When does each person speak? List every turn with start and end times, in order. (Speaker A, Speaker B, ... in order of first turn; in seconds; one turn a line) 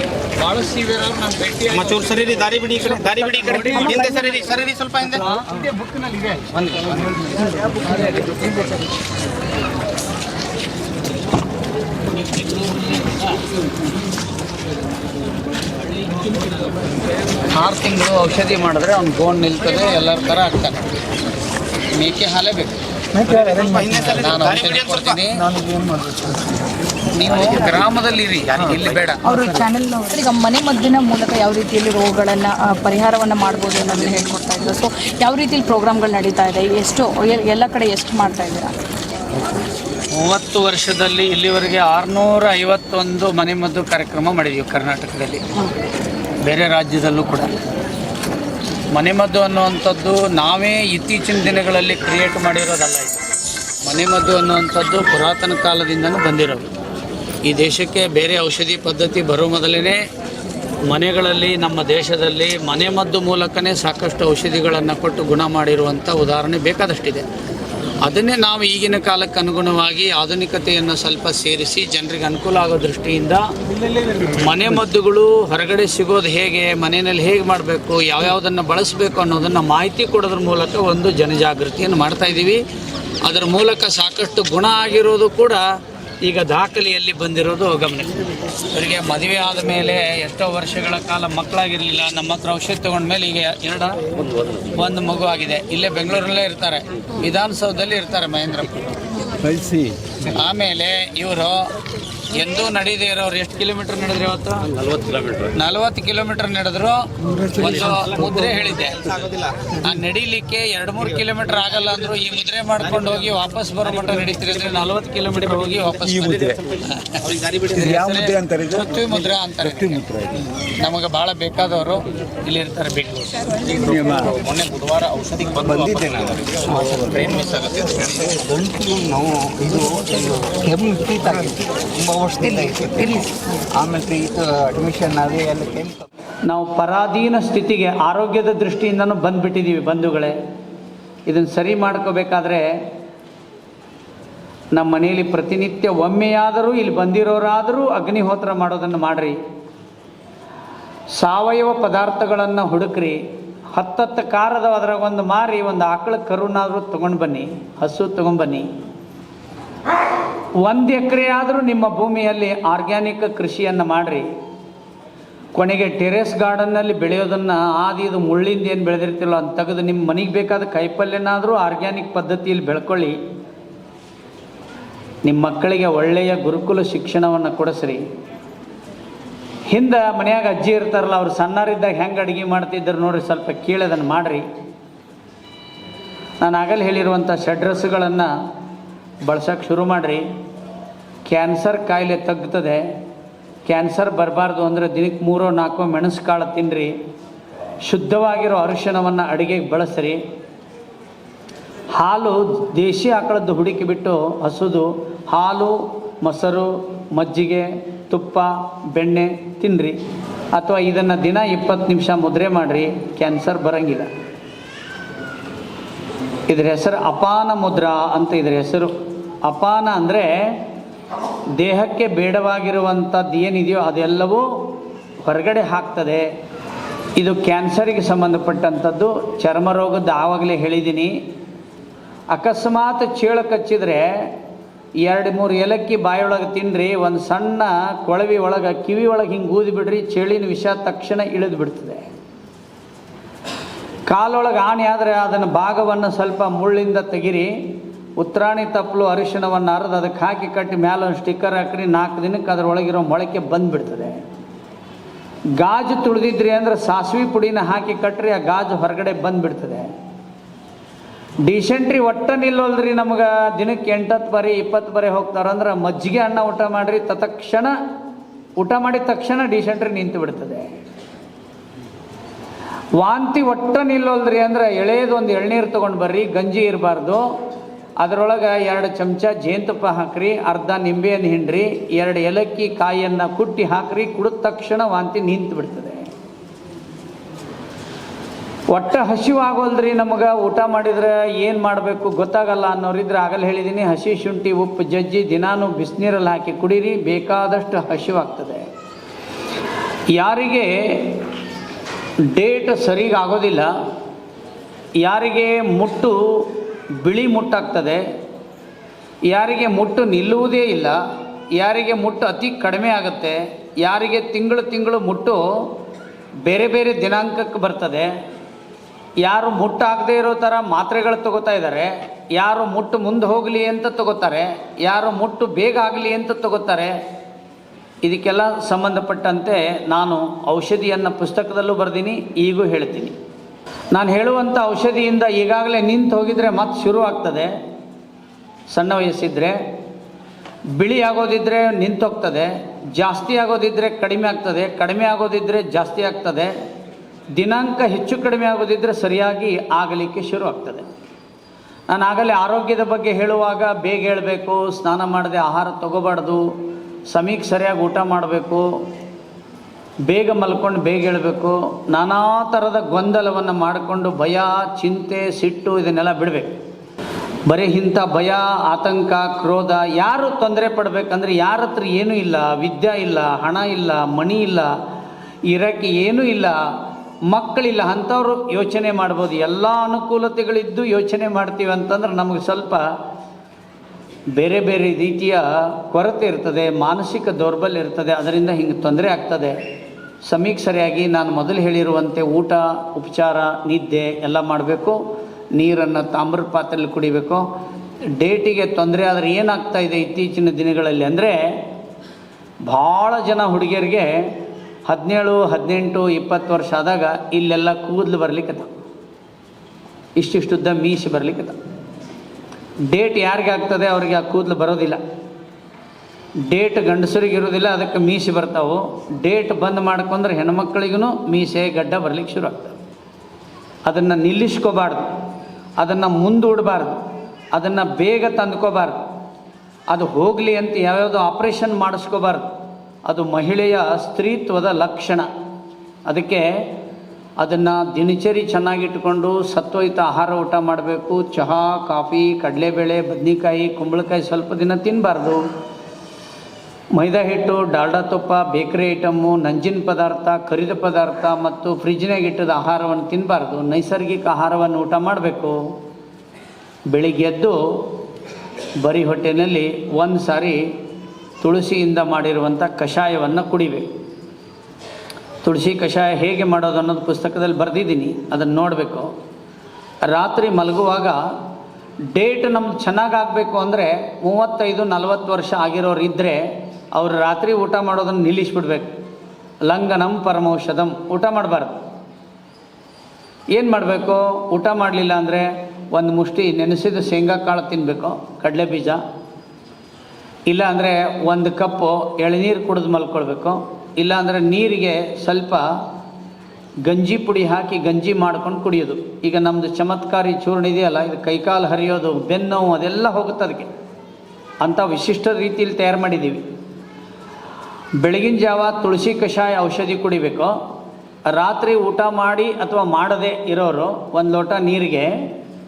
Speaker A: 0.4-2.2
Speaker B: 1.7-5.3
Speaker A: 3.4-3.9
Speaker C: 5.4-6.5
Speaker B: 6.6-7.2
Speaker A: 12.2-13.2
Speaker A: 17.5-20.9
Speaker A: 21.9-22.8
Speaker B: 23.2-25.2
Speaker C: 23.3-23.7
Speaker A: 24.0-25.5
Speaker C: 25.5-26.6
Speaker A: 27.1-29.3
Speaker B: 27.3-27.9
Speaker B: 28.5-29.0
Speaker D: 29.2-38.8
Speaker A: 40.1-45.5
Speaker A: 46.4-47.5
Speaker A: 48.9-53.2
Speaker A: 53.8-56.7
Speaker A: 57.4-60.0
Speaker A: 60.9-67.3
Speaker A: 68.0-73.5
Speaker A: 74.1-82.6
Speaker A: 83.2-85.7
Speaker A: 86.2-94.0
Speaker A: 94.7-98.8
Speaker C: 99.4-100.0
Speaker A: 100.2-101.7
Speaker A: 102.3-104.7
Speaker A: 105.5-109.1
Speaker B: 107.8-108.3
Speaker B: 109.1-109.7
Speaker A: 109.8-123.8
Speaker C: 116.2-116.6
Speaker B: 117.3-117.8
Speaker C: 117.8-118.8
Speaker C: 120.0-120.2
Speaker C: 123.7-124.4
Speaker B: 124.3-126.0
Speaker C: 125.6-127.3
Speaker B: 126.6-128.1
Speaker C: 128.0-136.1
Speaker A: 136.4-140.3
Speaker A: 141.3-142.7
Speaker A: 144.7-149.4
Speaker A: 151.2-153.2
Speaker A: 153.7-158.7
Speaker A: 160.6-164.3
Speaker A: 165.6-173.2
Speaker A: 175.2-178.0
Speaker A: 179.7-184.4
Speaker A: 186.4-188.3
Speaker A: 189.3-190.2
Speaker A: 191.3-192.8
Speaker A: 193.7-196.9
Speaker A: 197.8-200.2
Speaker A: 202.0-210.0
Speaker A: 210.5-214.1
Speaker A: 216.5-220.6
Speaker A: 221.6-224.5
Speaker A: 225.2-226.3
Speaker A: 227.2-231.1
Speaker A: 232.3-234.3
Speaker A: 235.0-242.1
Speaker A: 244.1-247.5
Speaker A: 248.2-254.2
Speaker A: 255.6-259.9
Speaker A: 261.4-267.7
Speaker A: 268.6-270.7
Speaker A: 273.0-277.3
Speaker A: 278.0-286.1
Speaker A: 288.7-298.7
Speaker A: 300.1-301.2
Speaker A: 302.3-303.7
Speaker A: 305.0-308.0
Speaker A: 309.3-311.0
Speaker A: 311.6-315.7
Speaker A: 316.4-318.1
Speaker A: 319.2-326.9
Speaker A: 328.0-333.1
Speaker A: 333.9-337.5
Speaker A: 338.7-339.6
Speaker A: 340.8-346.5
Speaker A: 347.4-350.9
Speaker A: 351.9-356.5
Speaker A: 357.1-358.7
Speaker A: 360.1-366.5
Speaker A: 367.5-374.7
Speaker A: 375.5-376.6
Speaker A: 377.3-382.9
Speaker A: 384.4-389.6
Speaker A: 390.3-395.0
Speaker A: 395.6-397.4
Speaker A: 398.2-401.4
Speaker A: 402.7-404.3
Speaker A: 404.9-408.8
Speaker A: 410.2-411.6
Speaker A: 412.9-415.0
Speaker A: 416.5-422.8
Speaker A: 423.9-425.1
Speaker A: 425.8-427.0
Speaker A: 427.5-429.0
Speaker A: 429.9-432.5
Speaker A: 433.1-435.3
Speaker A: 436.1-436.7
Speaker A: 437.4-445.4
Speaker A: 446.9-455.6
Speaker A: 456.9-457.9
Speaker A: 458.8-460.6
Speaker A: 461.4-463.9
Speaker A: 465.4-469.1
Speaker A: 470.0-471.2
Speaker A: 472.1-476.4
Speaker A: 476.9-478.9
Speaker A: 479.7-481.8
Speaker A: 483.5-489.0
Speaker A: 490.5-495.6
Speaker A: 496.9-503.7
Speaker A: 504.6-506.4
Speaker A: 508.0-510.5
Speaker A: 511.3-515.1